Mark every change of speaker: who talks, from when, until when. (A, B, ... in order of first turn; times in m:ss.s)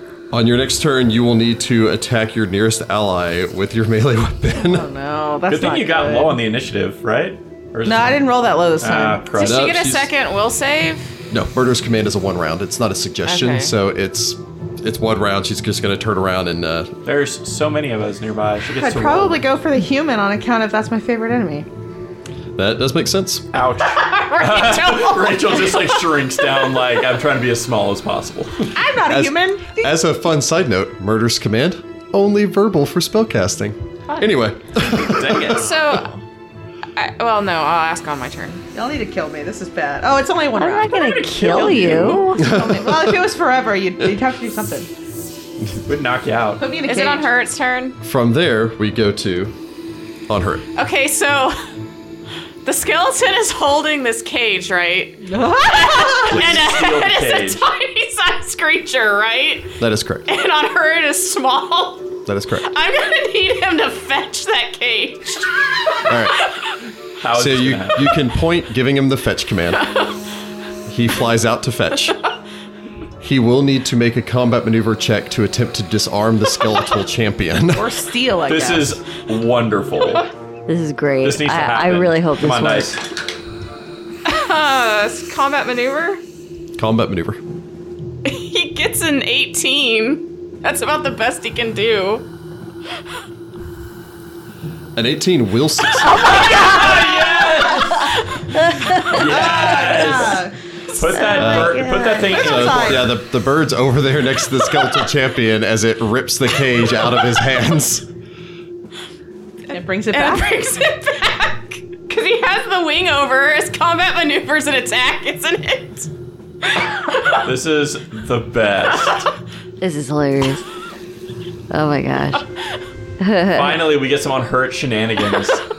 0:00.3-0:04.9 A
0:04.6-0:06.4 B
0:05.5-0:08.2 C
0:07.8-0:09.2 B
0:08.8-0:09.9 C
0:09.3-0:11.1 D
0:09.4-0:10.1 A
0:11.3-0:16.9 A
0:13.2-0:13.7 D
0:17.0-0:19.4 C
0:18.7-0:21.7 B
0:22.6-0:23.4 A
0:23.5-0:28.7 C
0:23.9-0:26.7 D
0:28.7-0:30.0 B
0:29.1-0:35.6 A
0:34.1-0:34.4 D
0:34.8-0:36.0 C
0:35.5-0:36.2 D
0:37.0-0:38.6 D
0:38.7-0:41.0 B
0:40.6-0:42.4 E
0:41.0-0:42.4 D
0:41.4-0:42.2 C
0:42.3-0:44.9 B
0:42.4-0:43.3 A
0:45.8-0:46.7 C
0:46.6-0:47.3 B
0:46.8-0:48.0 D
0:48.0-0:49.5 A
0:50.3-0:50.6 A
0:50.8-0:51.6 D
0:52.6-0:59.7 D
0:55.2-0:56.5 B
0:56.2-0:57.6 C
0:59.8-1:00.3 A
1:00.2-1:02.1 D
1:02.2-1:02.7 A
1:02.6-1:06.7 D
1:06.0-1:06.4 A
1:07.2-1:08.2 C
1:07.3-1:09.9 A
1:10.9-1:12.2 A
1:13.2-1:17.9 A
1:17.7-1:18.9 B
1:18.4-1:20.3 C
1:20.7-1:23.0 E
1:21.2-1:23.0 C
1:24.2-1:26.2 D
1:26.8-1:27.4 A
1:28.2-1:32.3 D
1:35.0-1:36.7 A
1:36.0-1:38.2 C
1:36.1-1:37.2 D
1:37.8-1:38.4 D
1:38.6-1:39.2 E
1:39.0-1:43.1 C
1:39.2-1:40.5 B
1:39.3-1:39.7 D
1:41.1-1:42.3 E
1:41.3-1:48.0 A
1:41.7-1:43.2 B
1:49.7-1:50.6 B
1:49.7-1:56.1 D
1:56.7-1:57.2 D
1:57.4-1:59.3 C
1:59.8-2:00.6 E
2:01.7-2:02.4 E
2:03.2-2:03.8 E
2:03.5-2:05.6 C